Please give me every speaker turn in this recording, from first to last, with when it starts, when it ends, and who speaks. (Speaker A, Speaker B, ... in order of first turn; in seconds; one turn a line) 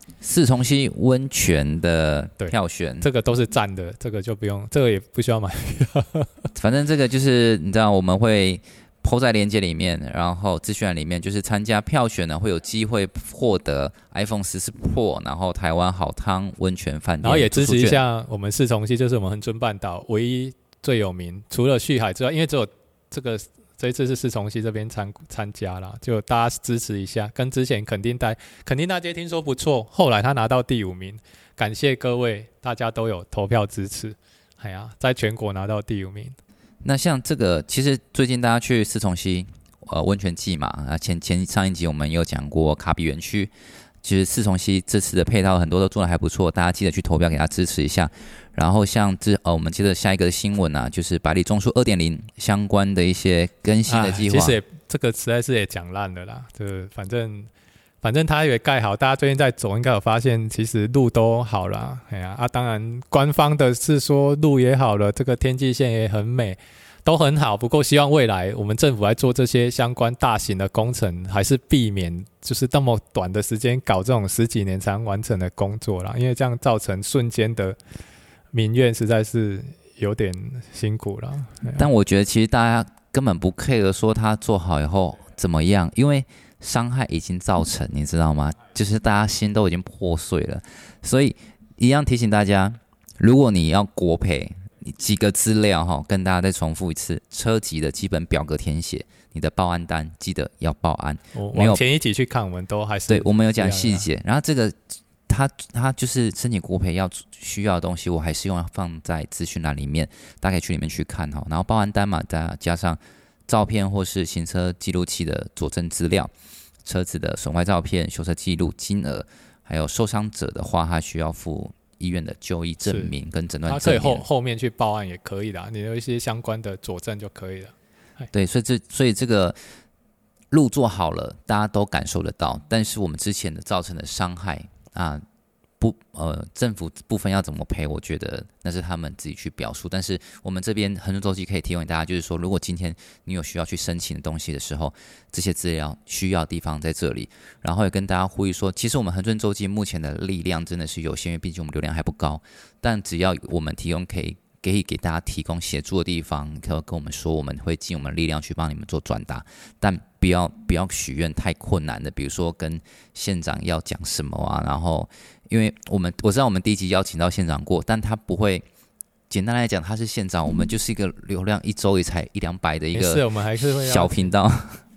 Speaker A: 0.2-3.1
Speaker B: 2.4-6.5
Speaker A: 6.5-18.0
Speaker B: 17.2-36.4
Speaker A: 36.8-43.5
Speaker A: 44.0-54.6
Speaker B: 53.9-57.5
Speaker B: 58.0-77.8
Speaker B: 78.5-81.9
Speaker A: 81.8-101.8
Speaker B: 101.3-104.1
Speaker A: 103.1-116.3
Speaker A: 116.8-124.2
Speaker B: 122.9-123.1
Speaker B: 123.7-128.3
Speaker A: 128.3-129.6
Speaker A: 130.5-135.2
Speaker A: 135.8-168.7
Speaker A: 169.3-174.8
Speaker B: 172.9-174.3